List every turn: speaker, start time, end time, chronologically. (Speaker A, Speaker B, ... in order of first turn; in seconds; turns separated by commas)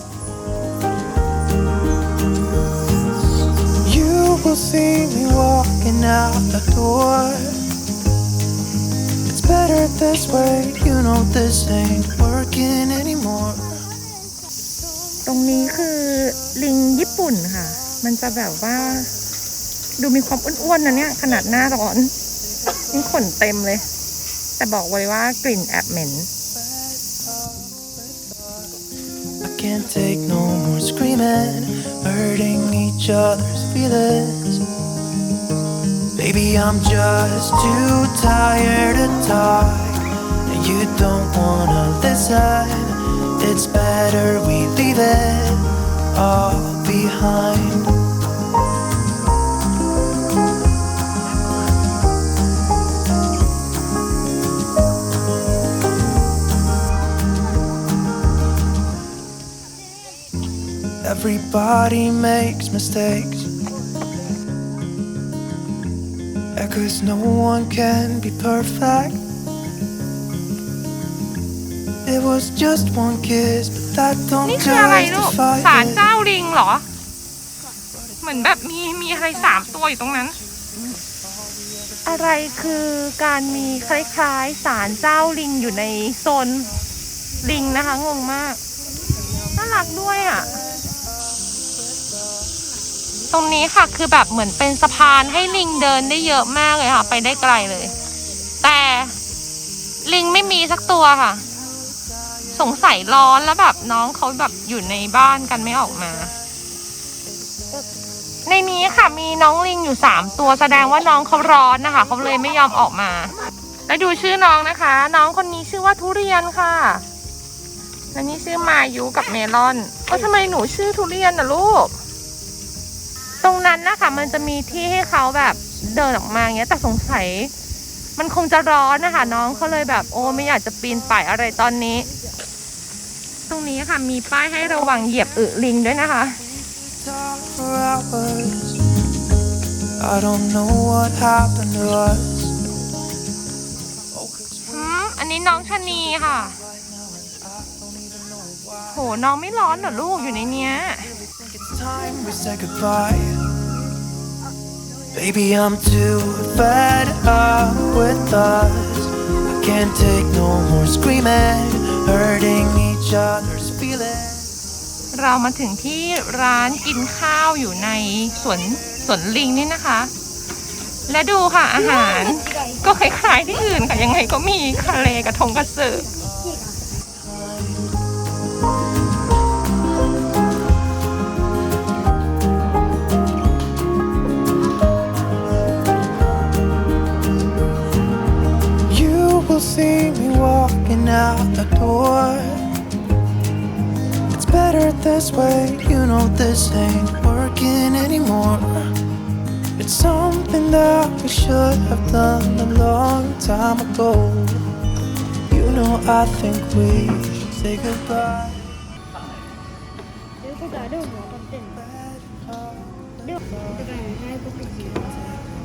Speaker A: 3.8-7.6, Speaker A: 9.3-13.8, Speaker B: 15.2-19.1, Speaker B: 20.0-22.1, Speaker B: 22.8-23.9, Speaker B: 24.6-26.3, Speaker A: 26.6-28.7, Speaker A: 29.4-34.6, Speaker A: 36.1-48.0, Speaker A: 61.0-63.5, Speaker A: 66.5-69.2, Speaker A: 72.0-76.1, Speaker B: 74.4-76.8, Speaker B: 78.2-80.4, Speaker B: 82.0-86.7, Speaker B: 87.4-88.6, Speaker B: 89.5-90.6, Speaker A: 92.0-92.3, Speaker B: 93.3-97.9, Speaker B: 98.6-99.2, Speaker B: 100.0-101.4, Speaker B: 102.5-106.3, Speaker B: 108.5-113.3, Speaker B: 113.9-117.0, Speaker B: 118.1-122.0, Speaker B: 123.4-127.5, Speaker B: 128.2-132.1, Speaker B: 133.5-136.4, Speaker A: 136.6-138.8, Speaker A: 140.0-142.6, Speaker A: 144.1-149.1, Speaker B: 144.7-146.6, Speaker B: 148.9-151.1, Speaker A: 151.0-153.5, Speaker A: 155.1-164.5, Speaker B: 165.1-170.1, Speaker B: 171.1-176.1, Speaker A: 176.2-177.9, Speaker C: 176.4-176.7, Speaker A: 188.8-192.7, Speaker A: 194.3-199.0, Speaker A: 199.8-204.7, Speaker A: 205.5-208.7, Speaker C: 210.4-211.8, Speaker A: 211.8-213.1, Speaker C: 213.2-215.2